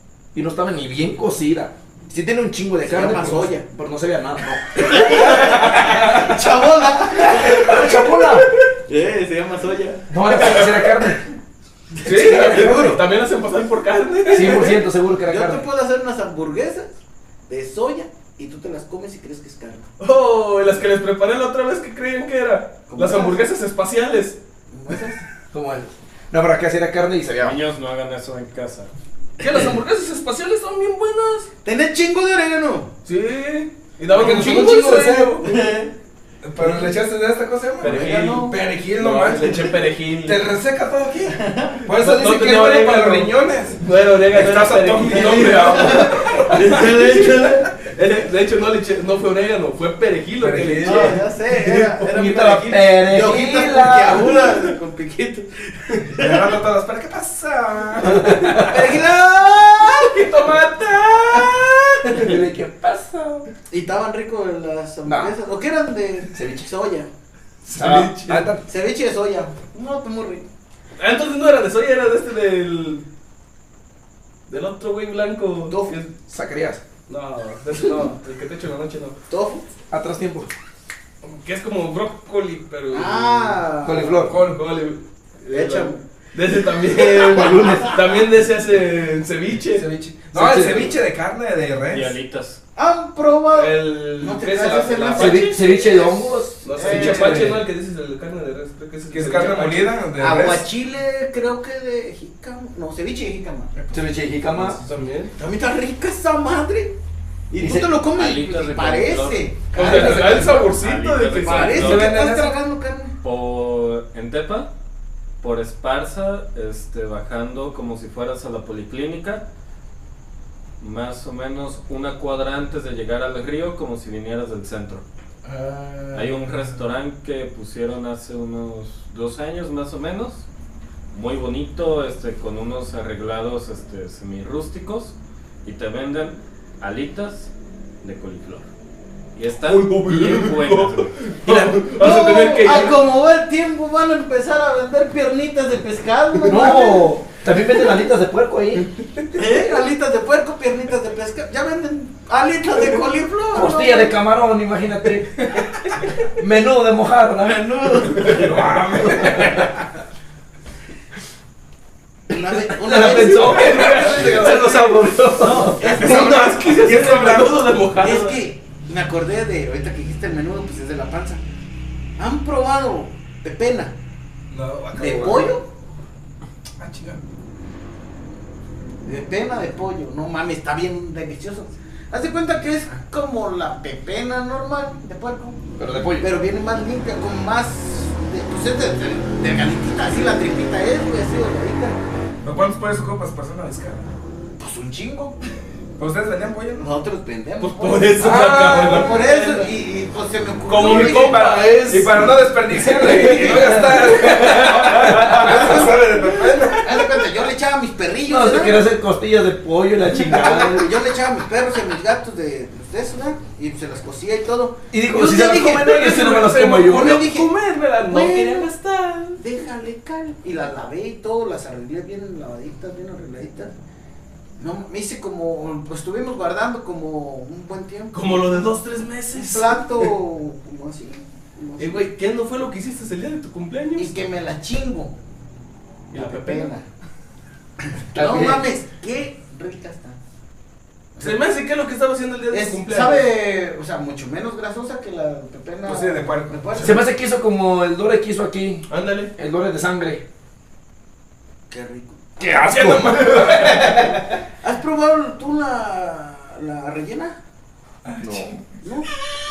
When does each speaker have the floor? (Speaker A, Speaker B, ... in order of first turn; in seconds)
Speaker A: 0.3-6.3, 7.2-8.5, 10.1-11.2, 12.1-13.0, 14.3-15.7, 25.5-27.6, 50.5-51.2, 52.0-54.4, 58.0-58.7, 62.1-63.5, 65.0-65.3, 66.3-66.7, 67.7-68.6, 76.3-76.8, 79.9-80.5, 83.8-84.4, 87.3-87.9, 90.3-91.0, 95.2-96.6, 103.9-104.8, 107.6-107.9, 141.4-141.9, 146.5-148.9, 153.5-155.3, 156.4-157.7, 159.0-159.7, 162.6-166.1, 185.8-186.3, 203.4-204.1, 208.3-210.9, 214.9-217.3, 238.1-238.7, 246.8-250.2, 252.4-253.6, 258.2-258.6
Speaker B: 2.8-3.6, 4.8-8.3, 8.8-10.8, 12.3-13.0, 15.2-19.9, 22.9-23.5, 24.7-25.2, 31.6-32.9, 35.4-35.9, 37.8-38.6, 41.3-41.9, 45.0-47.7, 50.8-56.5, 58.7-60.3, 63.7-67.1, 68.7-70.5, 75.7-76.0, 79.3-79.7, 82.9-84.2, 85.5-86.0, 86.7-88.2, 92.8-97.5, 100.2-103.7, 105.4-107.0, 107.5-110.7, 111.4-113.2, 141.9-147.2, 149.3-154.2, 157.3-158.6, 162.3-171.4, 172.2-173.9, 175.0-175.7, 179.1-185.6, 186.2-192.0, 194.6-195.4, 196.8-201.7, 205.0-208.8, 210.2-216.3, 217.0-217.5, 218.1-218.7, 219.4-223.7, 224.6-228.7, 229.3-232.1, 233.9-235.1, 236.1-236.8, 237.9-240.2, 241.2-241.4, 242.5-247.1, 251.7-252.3, 254.6-257.4, 258.8-259.1
Speaker C: 5.0-6.2, 10.4-10.7, 12.0-14.8, 20.0-24.4, 29.4-31.5, 33.1-35.6, 37.8-40.5, 42.0-52.0, 58.7-59.1, 59.8-62.3, 67.7-68.5, 71.0-73.0, 74.5-76.1, 77.1-79.2, 81.2-83.8, 84.4-89.9, 93.5-95.6, 96.6-99.9, 104.6-105.3, 109.7-112.0, 139.6-143.0, 162.9-164.8, 165.4-168.4, 197.6-199.7, 200.7-205.8, 215.7-219.4, 228.1-230.1, 231.8-234.2, 236.1-236.7, 241.2-243.3, 248.9-249.3, 252.8-253.9
Speaker D: 12.0-12.6, 34.1-35.4, 36.4-46.7, 50.4-51.2, 56.2-58.8, 68.3-68.6, 84.2-84.6, 89.7-92.2, 96.8-97.7, 99.1-100.7, 103.8-104.2, 109.9-110.5, 111.8-112.6, 125.4-126.8, 158.1-159.8, 174.5-175.6, 176.8-177.2, 192.4-194.1, 196.0-196.9, 198.2-199.2, 200.7-207.3, 245.8-247.0, 252.5-254.2, 258.0-258.7
Speaker E: 27.4-28.9, 91.9-92.6, 108.1-112.1, 113.2-114.7, 115.4-119.4, 120.8-125.0, 126.1-130.5, 131.1-137.5, 138.0-138.7, 139.4-141.2